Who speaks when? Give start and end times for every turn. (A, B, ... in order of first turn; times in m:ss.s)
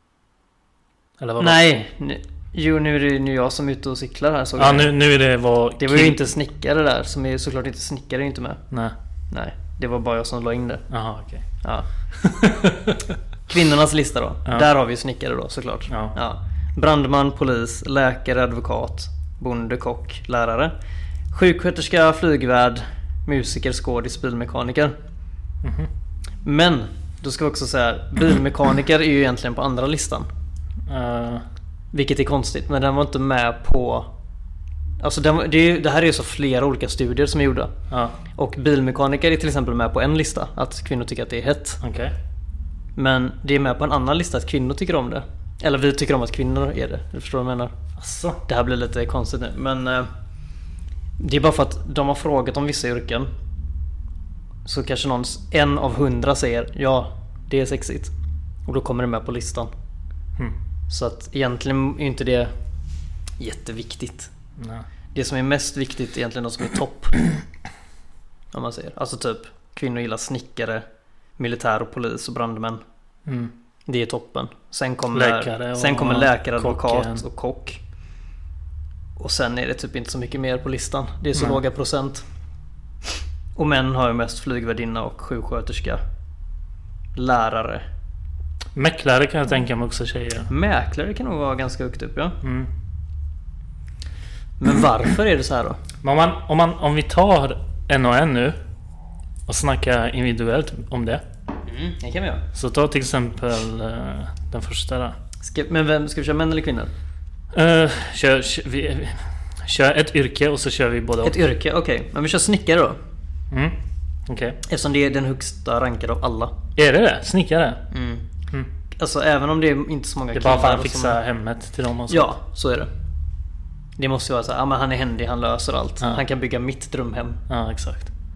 0:01.2-0:01.6 A
0:01.4-0:04.9 B
0:04.6-0:06.2 A
0:05.8-0:08.6 B
0:08.7-0:09.0 A
0:09.3-0:10.8 B
0:10.9-0:11.5 A
0:12.1-0:13.2 A
0:13.5-0:20.7 B
0:15.9-0:16.1 A
0:21.3-0:25.0 B
0:25.6-0:25.9 A
0:26.4-0:30.3 B
0:30.8-0:31.4 A
0:31.9-0:34.1 B
0:35.0-0:37.7 B
0:37.9-0:38.2 A
0:38.3-0:41.8 B
0:41.8-0:42.1 A
0:43.0-0:47.7 B
0:48.0-0:48.4 A
0:48.5-0:50.1 B
0:51.2-0:53.3 B
0:54.6-0:58.1 B
0:58.7-0:59.7 B
1:00.9-1:02.5 B
1:03.4-1:04.3 B
1:04.6-1:04.8 A
1:05.1-1:07.2 B
1:08.5-1:10.8 B
1:11.4-1:12.8 B
1:13.2-1:13.5 A
1:13.9-1:17.8 B
1:15.1-1:17.2 A
1:19.2-1:22.2 B
1:23.6-1:26.0 B
1:27.2-1:27.8 B
1:28.7-1:30.5 A
1:30.5-1:32.4 B
1:32.4-1:32.7 A
1:34.6-1:35.8 B
1:36.0-1:38.6 A
1:39.5-1:41.2 A
1:41.6-1:42.4 B
1:42.5-1:45.2 A
1:45.4-1:46.9 B
1:47.5-1:51.4 A
1:51.2-1:53.0 B
1:53.5-1:54.6 A
1:54.6-1:56.6 B
1:56.7-1:57.8 A
1:57.9-1:58.3 B
1:59.0-2:01.2 B
2:00.3-2:02.3 A
2:02.1-2:02.9 B
2:04.0-2:07.4 B
2:07.5-2:08.1 A